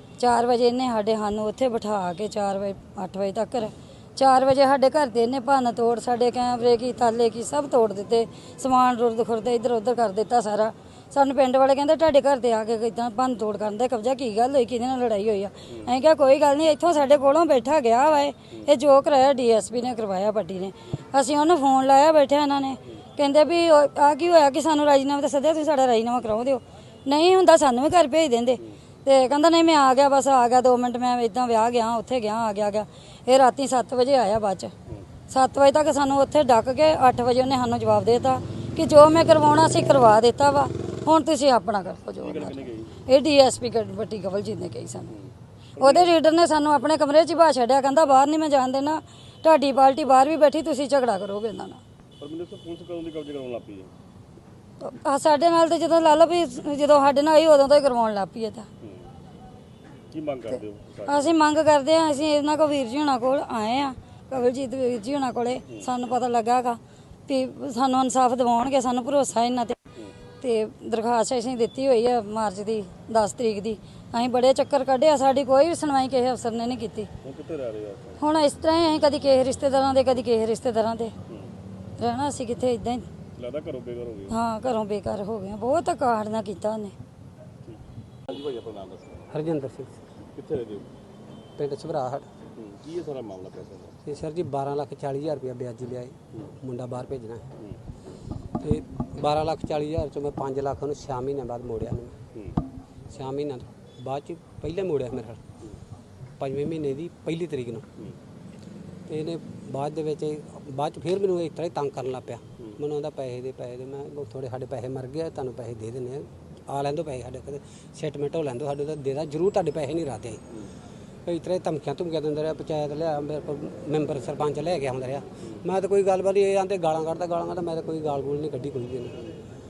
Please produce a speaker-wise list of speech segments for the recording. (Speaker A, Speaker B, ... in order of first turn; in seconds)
Speaker A: 0.2-34.7, 35.3-45.1, 45.8-51.8, 54.8-58.7, 61.1-69.8, 70.4-77.1, 78.2-81.1, 82.0-83.1, 84.3-87.0
Speaker B: 42.2-42.9, 45.1-46.1, 52.2-53.9, 60.1-61.4, 77.2-78.2, 83.3-84.3, 87.7-89.3, 90.3-90.9, 92.6-94.0
Speaker C: 89.3-90.0, 91.6-92.3, 94.0-97.5, 98.6-102.2, 103.1-105.4, 106.4-107.8, 109.1-120.4, 121.3-129.2